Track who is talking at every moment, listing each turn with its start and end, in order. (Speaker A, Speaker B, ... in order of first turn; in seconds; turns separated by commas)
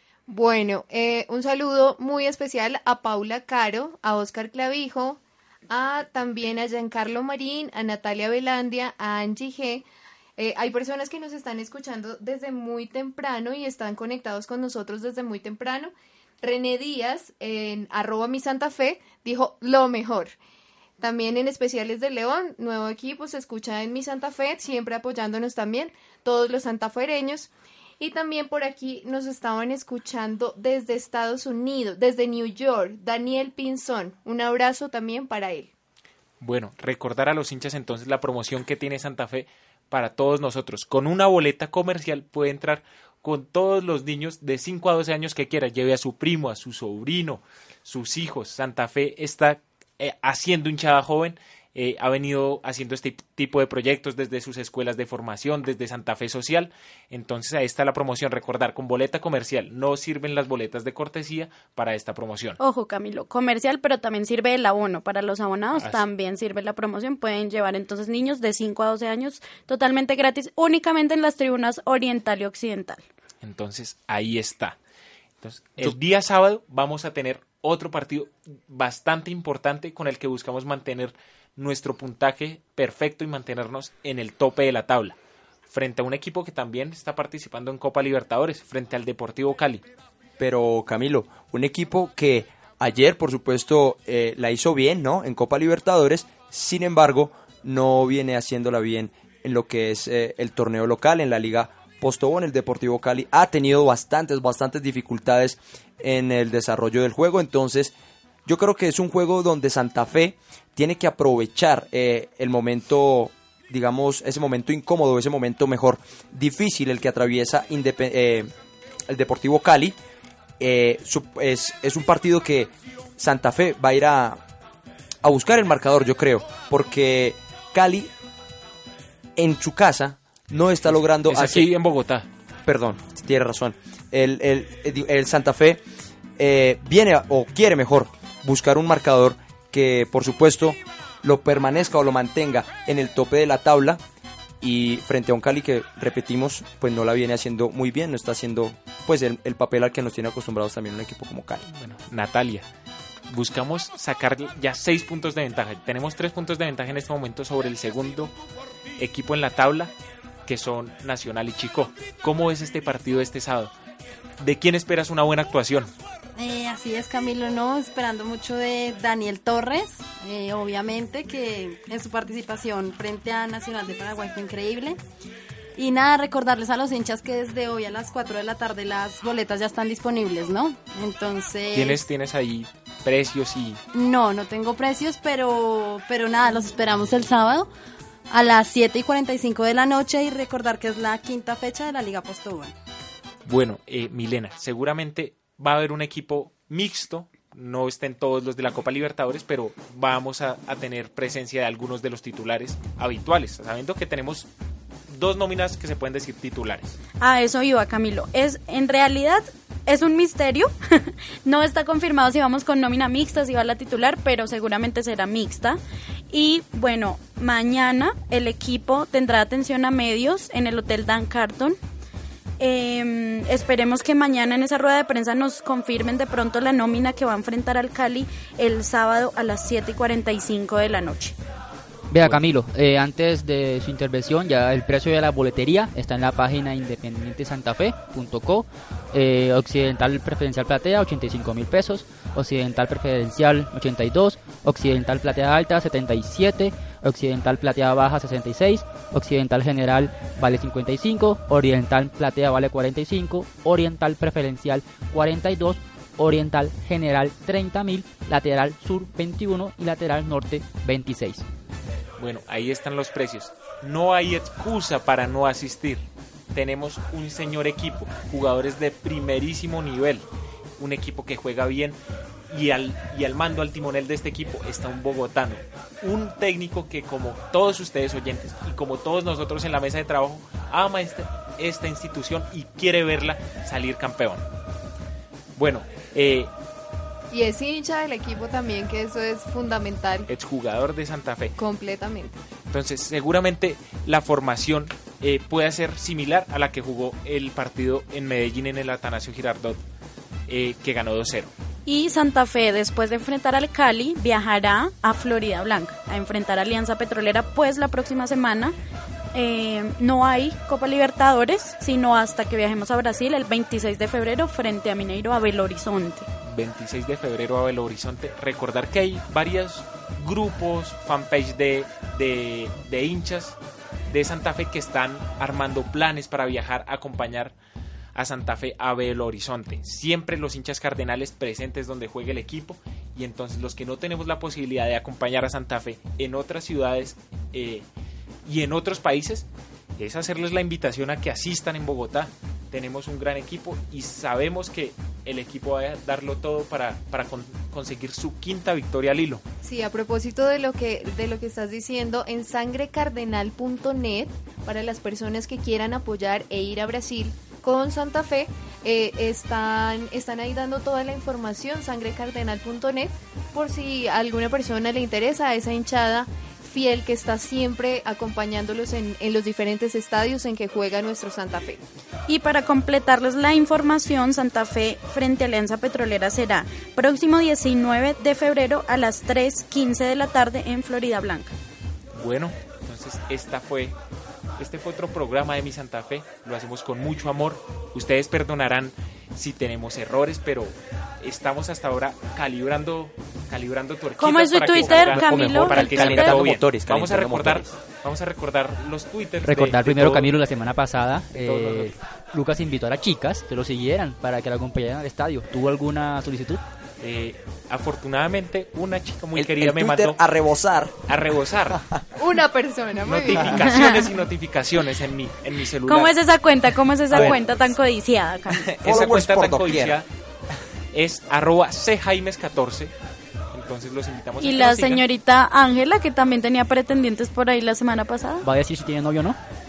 Speaker A: 0.3-9.8, Speaker A: 10.4-20.3, Speaker A: 21.0-35.7, Speaker B: 36.4-62.6, Speaker C: 62.6-73.0, Speaker B: 73.4-74.8, Speaker B: 75.4-85.2, Speaker B: 85.7-89.8, Speaker D: 90.4-107.9, Speaker D: 108.4-118.5, Speaker D: 119.1-120.0, Speaker D: 120.6-124.4, Speaker D: 125.2-128.1, Speaker D: 129.3-131.7, Speaker B: 131.2-132.3, Speaker D: 132.7-135.8, Speaker D: 136.4-144.0, Speaker D: 144.6-151.6, Speaker B: 151.7-152.7, Speaker B: 153.3-158.3, Speaker B: 159.0-159.9, Speaker B: 160.4-163.7, Speaker B: 164.4-165.9, Speaker E: 166.4-175.0, Speaker E: 175.8-182.0, Speaker B: 181.7-183.8, Speaker E: 183.9-187.7, Speaker E: 188.3-192.7, Speaker B: 193.4-204.5, Speaker B: 205.1-207.0, Speaker C: 207.2-215.8, Speaker C: 216.3-221.8, Speaker C: 222.6-231.3, Speaker F: 232.1-261.4, Speaker B: 262.2-270.2, Speaker B: 270.8-272.0, Speaker B: 272.5-284.4, Speaker B: 285.6-286.5, Speaker A: 287.3-290.3, Speaker B: 290.3-291.5, Speaker A: 291.6-292.4, Speaker B: 292.7-299.8, Speaker B: 300.5-301.5, Speaker C: 301.9-308.7, Speaker C: 309.3-316.3, Speaker B: 316.4-323.6, Speaker B: 324.1-327.5, Speaker B: 328.1-337.9, Speaker B: 338.4-339.4, Speaker B: 340.0-349.4, Speaker A: 349.6-371.8, Speaker C: 372.3-381.5, Speaker B: 382.1-383.9, Speaker B: 384.6-400.3, Speaker C: 394.2-396.4, Speaker D: 394.8-397.7, Speaker F: 399.4-406.6, Speaker B: 401.3-401.9, Speaker B: 407.0-410.2, Speaker D: 409.3-411.0, Speaker B: 411.1-411.8, Speaker A: 412.2-413.6, Speaker B: 413.0-416.1, Speaker C: 413.7-414.1, Speaker C: 415.9-418.6, Speaker B: 417.1-417.5, Speaker D: 417.1-417.4, Speaker D: 418.6-420.0, Speaker B: 418.8-420.1, Speaker B: 420.9-422.9, Speaker B: 423.5-425.0, Speaker C: 424.4-428.4, Speaker F: 428.4-429.4